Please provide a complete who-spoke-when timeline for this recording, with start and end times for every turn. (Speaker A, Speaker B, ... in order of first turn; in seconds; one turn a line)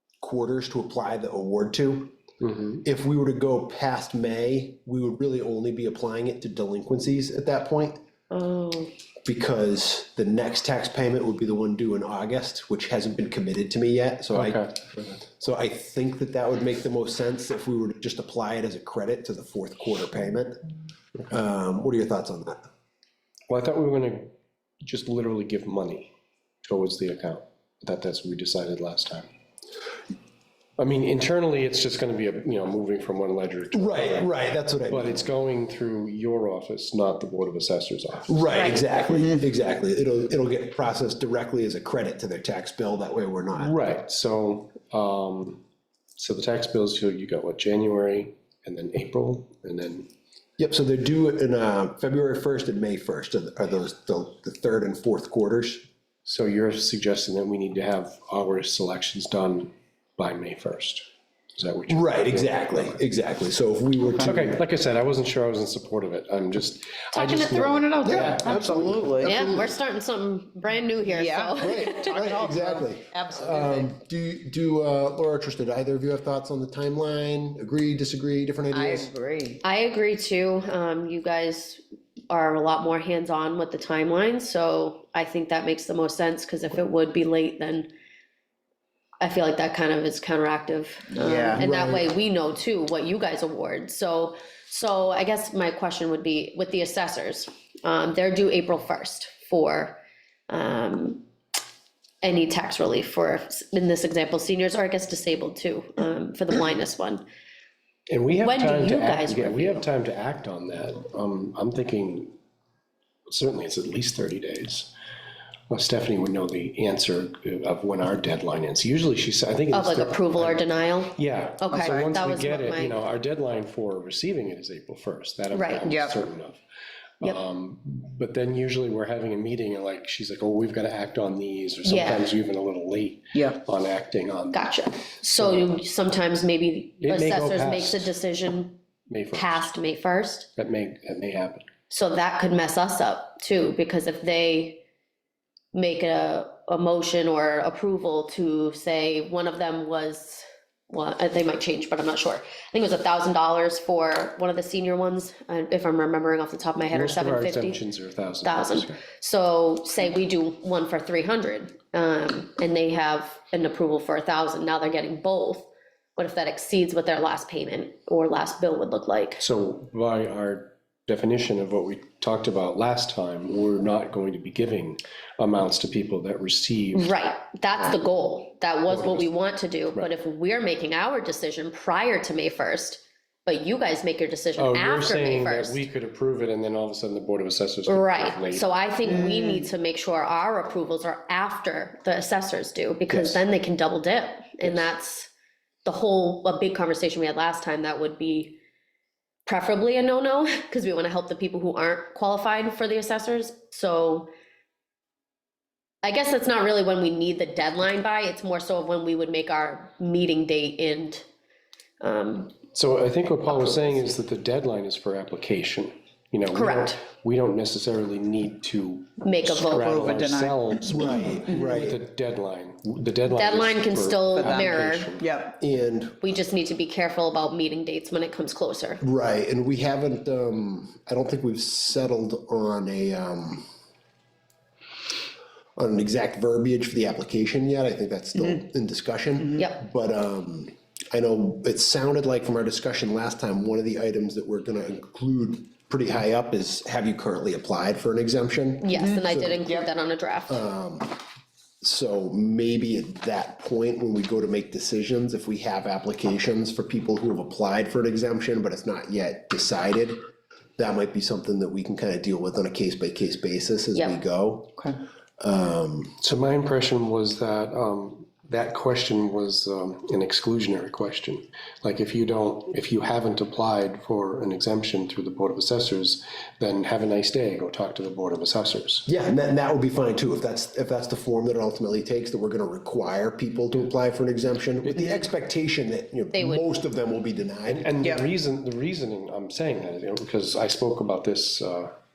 Speaker A: 0.2-2.1
Speaker B: 2.4-2.8
Speaker A: 2.8-8.0
Speaker C: 8.3-8.9
Speaker A: 9.2-14.6
Speaker B: 14.3-14.9
Speaker A: 15.1-20.6
Speaker A: 21.3-22.6
Speaker B: 23.5-24.3
Speaker B: 24.8-26.1
Speaker B: 26.6-29.3
Speaker B: 30.8-34.3
Speaker A: 33.7-35.3
Speaker B: 34.9-38.5
Speaker A: 38.3-43.7
Speaker C: 38.5-38.9
Speaker B: 43.5-45.6
Speaker B: 46.2-50.1
Speaker A: 50.6-55.9
Speaker B: 56.2-63.0
Speaker A: 61.9-64.5
Speaker B: 64.2-68.5
Speaker D: 67.1-69.5
Speaker A: 68.0-69.7
Speaker C: 69.2-72.2
Speaker D: 71.0-73.8
Speaker A: 71.6-79.1
Speaker D: 78.7-79.6
Speaker C: 79.6-87.9
Speaker C: 89.2-101.2
Speaker D: 91.1-91.6
Speaker A: 91.5-92.1
Speaker C: 102.2-107.2
Speaker B: 108.1-112.3
Speaker C: 108.4-109.8
Speaker B: 113.3-114.9
Speaker B: 115.7-120.6
Speaker C: 119.7-123.0
Speaker B: 121.1-126.6
Speaker D: 121.8-122.1
Speaker C: 125.5-125.9
Speaker D: 125.8-126.2
Speaker B: 127.2-134.7
Speaker C: 131.8-132.3
Speaker D: 133.3-133.6
Speaker C: 134.5-138.8
Speaker B: 135.3-135.7
Speaker B: 137.0-138.1
Speaker B: 139.1-139.7
Speaker C: 139.3-140.5
Speaker B: 140.6-141.7
Speaker C: 141.9-144.8
Speaker C: 145.7-157.8
Speaker B: 156.9-159.0
Speaker C: 158.4-169.4
Speaker B: 169.4-177.2
Speaker C: 176.9-185.8
Speaker B: 178.9-179.3
Speaker B: 184.6-188.7
Speaker C: 187.8-195.3
Speaker A: 193.1-193.4
Speaker C: 195.8-198.6
Speaker C: 199.4-204.3
Speaker C: 206.0-211.2
Speaker C: 212.0-212.6
Speaker B: 212.7-225.3
Speaker C: 216.5-217.0
Speaker C: 219.2-220.0
Speaker D: 219.7-220.7
Speaker A: 220.9-222.0
Speaker C: 223.3-225.1
Speaker D: 224.3-225.6
Speaker A: 225.6-226.2
Speaker C: 226.2-229.0
Speaker A: 229.0-233.6
Speaker A: 235.8-249.6
Speaker C: 248.8-250.6
Speaker A: 250.5-251.2
Speaker A: 251.8-260.2
Speaker A: 260.8-266.1
Speaker B: 266.2-279.1
Speaker A: 279.1-287.9
Speaker B: 284.8-285.3
Speaker C: 286.3-286.6
Speaker B: 287.7-291.9